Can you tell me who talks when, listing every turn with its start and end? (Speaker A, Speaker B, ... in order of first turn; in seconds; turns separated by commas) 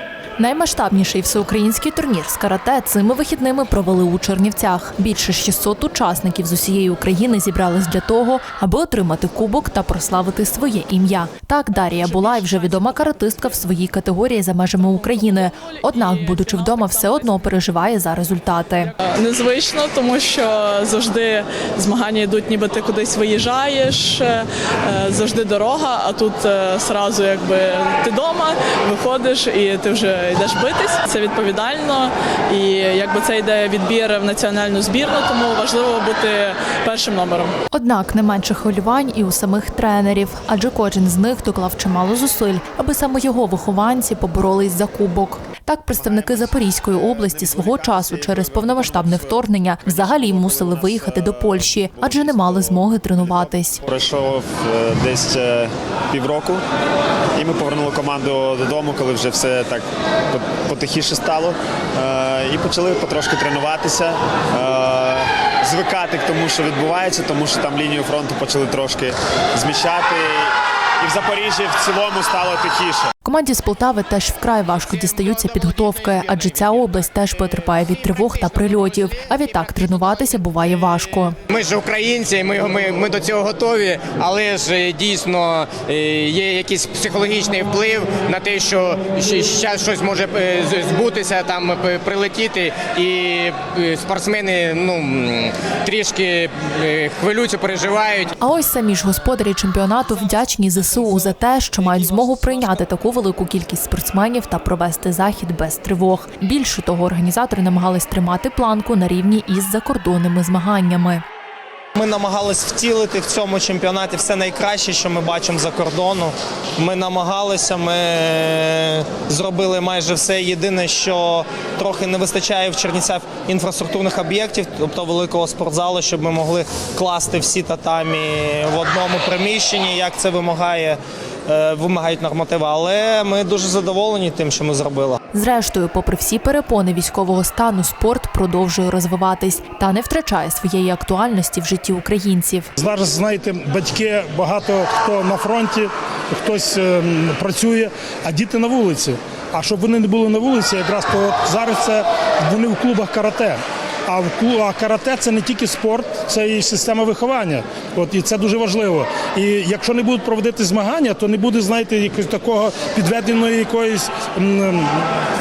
Speaker A: 0.4-18.9, Speaker B: 15.2-17.4, Speaker B: 19.1-37.5, Speaker A: 37.7-53.8, Speaker C: 45.9-56.6, Speaker C: 57.3-73.1, Speaker A: 73.2-81.4, Speaker D: 74.9-77.0, Speaker D: 78.1-79.0, Speaker D: 81.5-98.3, Speaker A: 98.4-111.2, Speaker E: 111.9-135.2, Speaker A: 135.3-142.7, Speaker F: 142.8-165.0